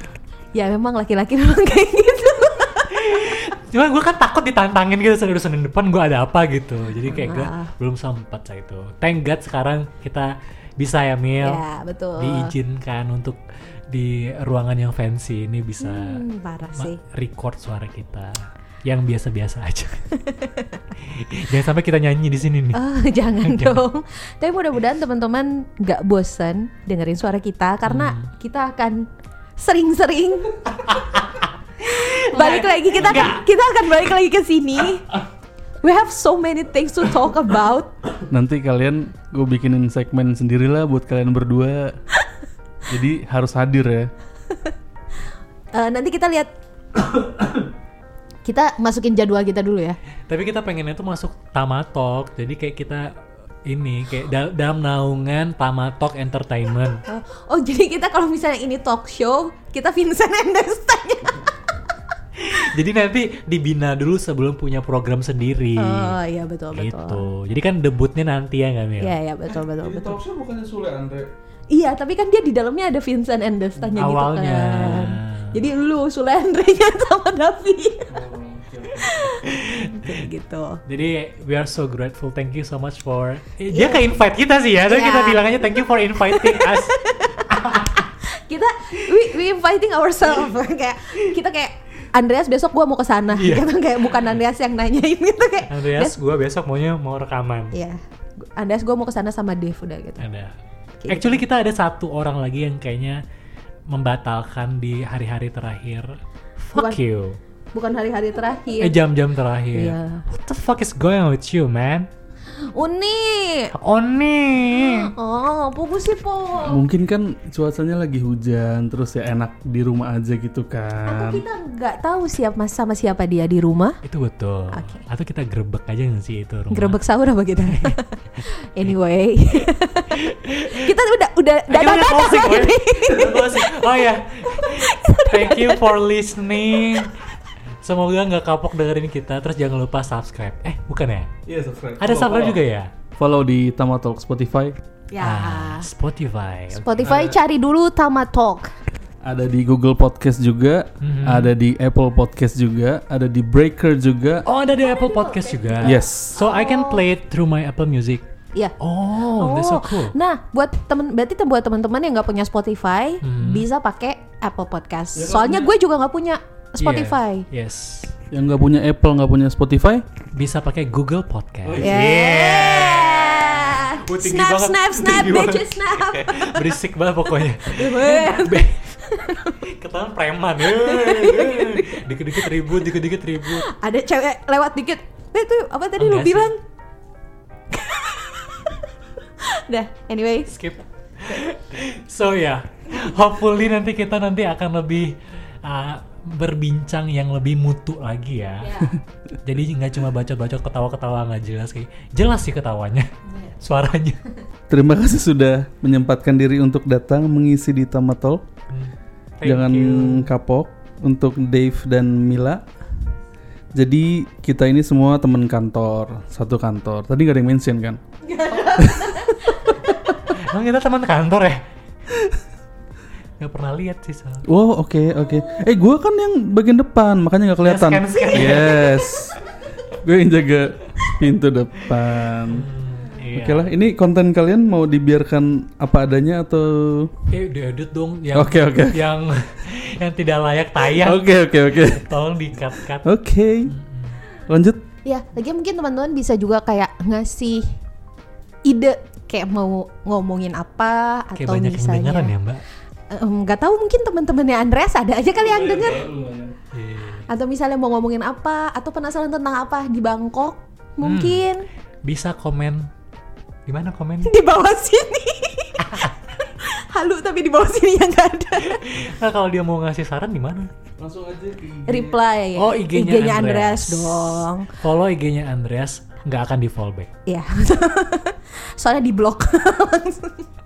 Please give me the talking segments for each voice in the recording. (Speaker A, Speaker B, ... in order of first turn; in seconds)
Speaker A: 0.5-3.2, 7.0-7.7, 11.4-12.5, 15.8-17.0, 20.2-20.8, 22.7-30.6, 31.8-35.2, 35.8-38.0, 45.7-46.5, 48.5-50.0, 57.1-61.5, 65.8-67.3, 69.0-70.2, 71.7-78.3, 78.9-80.8, 83.7-84.1, 84.9-96.2, 97.7-100.3, 101.0-101.4, 106.8-107.0, 107.7-109.0, 109.7-110.2, 112.6-113.7, 114.7-116.8, 121.1-124.0, 124.7-125.0, 126.7-136.0, 136.7-137.1, 145.1-145.9, 146.7-148.7, 154.8-157.1, 159.4-167.5, 171.8-176.8, 177.6-179.6, 180.7-182.9, 183.4-186.6, 187.7-188.8, 189.4-190.6, 198.6-199.0, 203.3-203.6, 218.3-220.3, 245.1-247.8, 248.7-252.3, 253.1-256.1, 257.3-261.7, 264.2-268.9, 271.9-274.7, 277.3-280.5
Speaker B: 2.9-11.6, 12.2-16.2, 16.8-20.1, 20.9-22.8, 23.4-23.8, 27.9-28.3, 30.7-33.4, 50.3-57.0, 62.4-66.2, 66.7-69.2, 73.9-75.6, 79.4-80.2, 80.9-88.1, 93.3-94.4, 95.7-97.8, 100.2-100.5, 101.1-103.2, 103.9-107.4, 108.8-112.1, 113.8-115.1, 124.0-127.0, 127.6-128.9, 130.2-130.9, 131.7-137.2, 137.8-141.3, 142.0-142.9, 145.2-147.1, 151.0-151.5, 154.5-158.2, 158.8-160.2, 163.2-163.7, 166.8-168.1, 170.3-183.7, 186.0-186.6, 190.5-198.9, 199.4-204.2, 208.7-210.3, 220.3-221.6, 223.4-224.5, 227.6-229.3, 232.5-233.7, 237.3-243.1, 243.7-244.2, 251.4-252.6, 256.7-257.3, 261.0-261.5, 262.1-262.9, 263.7-264.3, 268.6-270.7, 272.6-277.1
Speaker C: 38.3-42.0, 42.9-44.1, 69.8-71.3, 78.1-79.4, 116.7-121.4, 141.5-142.6, 143.2-144.8, 147.0-147.4, 149.2-154.5, 155.8-156.4, 165.2-165.7, 168.3-170.1, 171.7-172.2, 204.7-208.4, 209.4-212.7, 213.8-218.0, 218.8-219.7, 224.4-229.4, 230.0-232.7, 233.3-237.1, 238.3-239.0, 240.9-242.1, 243.0-243.7, 244.5-244.8, 255.4-256.6, 271.0-272.2